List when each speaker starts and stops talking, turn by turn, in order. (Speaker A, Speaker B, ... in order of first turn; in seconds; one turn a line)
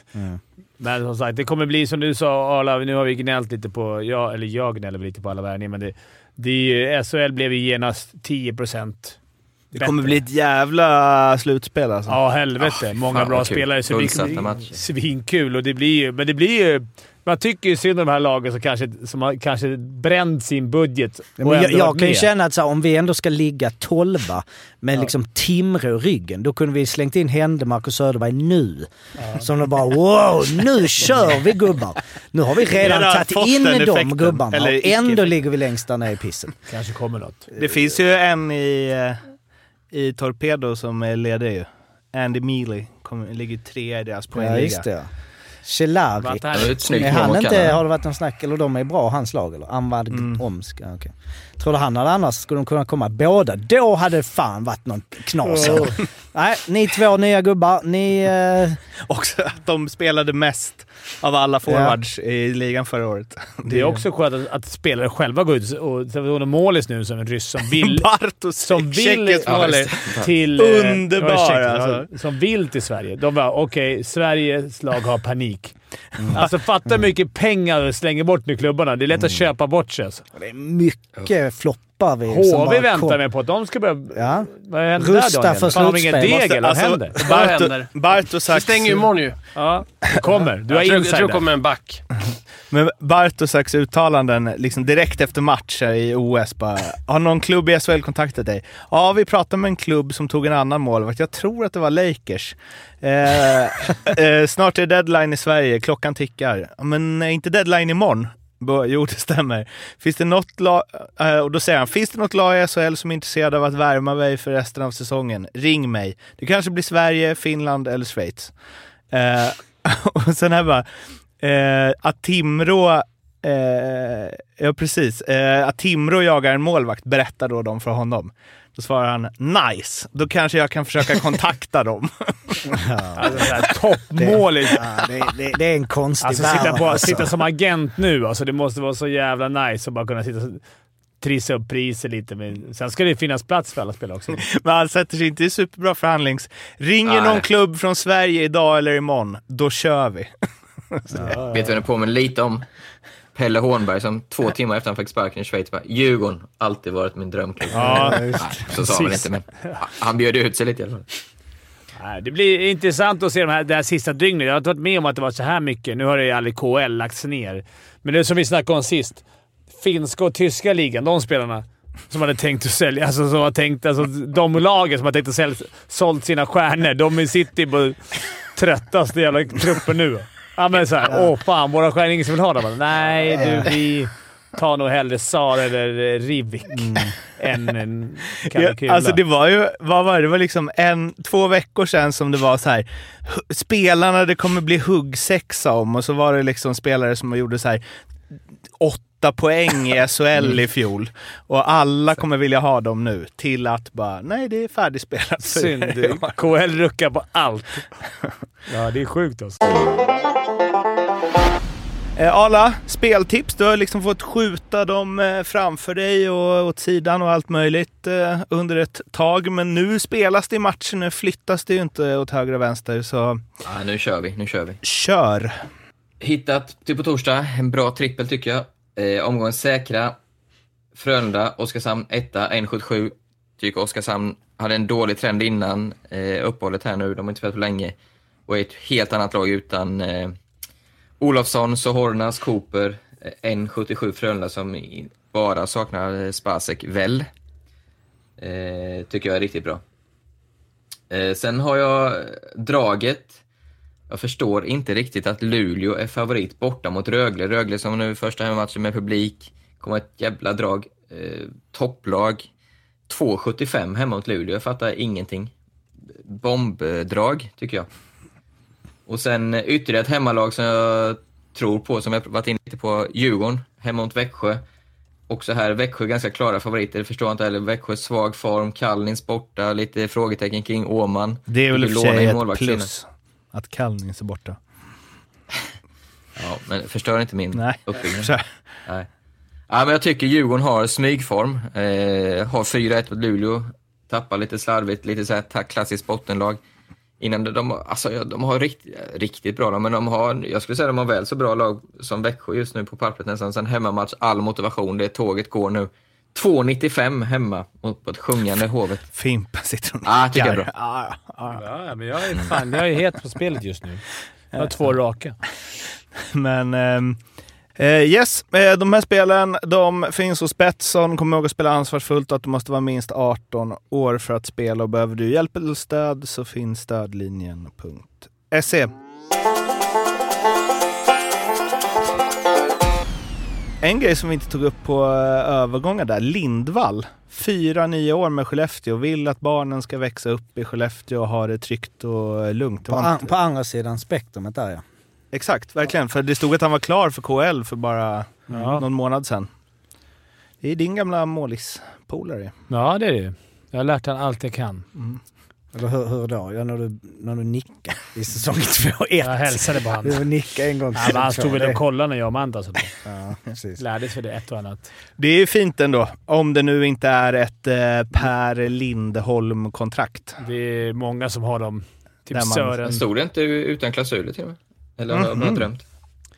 Speaker A: 0.1-0.4
Speaker B: 0.8-9.2
Speaker B: 9.7-10.2
Speaker C: 9.7-12.2
Speaker B: 12.1-22.3
Speaker D: 13.1-14.8
Speaker A: 21.4-36.5
Speaker B: 29.2-29.5
Speaker C: 32.7-35.3
Speaker B: 36.7-37.5
Speaker C: 37.5-39.2
Speaker C: 39.9-44.8
Speaker A: 44.3-45.1
Speaker A: 45.6-58.8
Speaker B: 46.2-47.5
Speaker D: 46.5-47.8
Speaker C: 50.1-50.4
Speaker B: 55.4-56.0
Speaker C: 59.0-64.0
Speaker A: 61.6-62.0
Speaker B: 63.7-68.1
Speaker C: 67.7-69.8
Speaker B: 68.6-75.7
Speaker D: 69.5-70.3
Speaker C: 70.6-72.1
Speaker A: 76.2-77.1
Speaker B: 76.3-80.2
Speaker A: 79.1-79.4
Speaker A: 80.3-83.2
Speaker B: 82.2-87.2
Speaker A: 84.1-86.4
Speaker C: 86.2-89.1
Speaker E: 87.2-87.9
Speaker E: 88.5-89.4
Speaker B: 89.5-91.5
Speaker E: 90.7-92.0
Speaker C: 92.7-118.5
Speaker C: 119.1-120.8
Speaker C: 121.4-132.8
Speaker A: 132.7-133.4
Speaker B: 133.2-134.8
Speaker A: 134.2-137.4
Speaker B: 136.2-140.6
Speaker B: 141.2-144.4
Speaker C: 144.3-150.3
Speaker D: 147.1-147.4
Speaker C: 150.9-151.4
Speaker B: 151.2-151.6
Speaker D: 151.3-152.6
Speaker D: 153.3-161.1
Speaker A: 157.7-158.6
Speaker B: 157.7-159.8
Speaker B: 162.0-169.2
Speaker B: 169.8-189.2
Speaker A: 183.3-183.7
Speaker A: 186.8-187.1
Speaker C: 188.5-197.8
Speaker C: 198.8-206.3
Speaker B: 205.4-207.9
Speaker B: 208.7-209.8
Speaker C: 212.2-223.4
Speaker D: 223.6-224.8
Speaker C: 224.8-225.5
Speaker D: 226.2-230.2
Speaker D: 230.9-237.9
Speaker D: 238.5-240.3
Speaker D: 241.2-247.3
Speaker D: 248.4-249.8
Speaker D: 251.1-253.4
Speaker D: 254.1-262.5
Speaker D: 263.1-265.5
Speaker D: 266.2-267.9
Speaker D: 269.1-274.6
Speaker D: 275.3-282.9
Speaker C: 281.5-284.6
Speaker D: 286.4-288.3
Speaker C: 287.5-288.4
Speaker D: 289.7-296.6
Speaker D: 297.2-309.0
Speaker C: 309.1-311.6
Speaker D: 310.0-310.7
Speaker B: 311.4-314.0
Speaker B: 314.6-315.4
Speaker C: 316.2-317.2
Speaker C: 317.8-328.9
Speaker C: 333.8-343.3
Speaker A: 342.9-344.8
Speaker C: 345.3-349.5
Speaker B: 348.5-348.8
Speaker C: 350.6-352.5
Speaker B: 352.7-354.8
Speaker A: 355.7-361.8
Speaker B: 359.2-360.2
Speaker B: 360.9-362.9
Speaker A: 363.0-363.8
Speaker B: 363.8-364.9
Speaker C: 365.2-370.4
Speaker B: 370.4-373.0
Speaker C: 372.3-372.8
Speaker D: 372.8-375.8
Speaker C: 375.1-375.6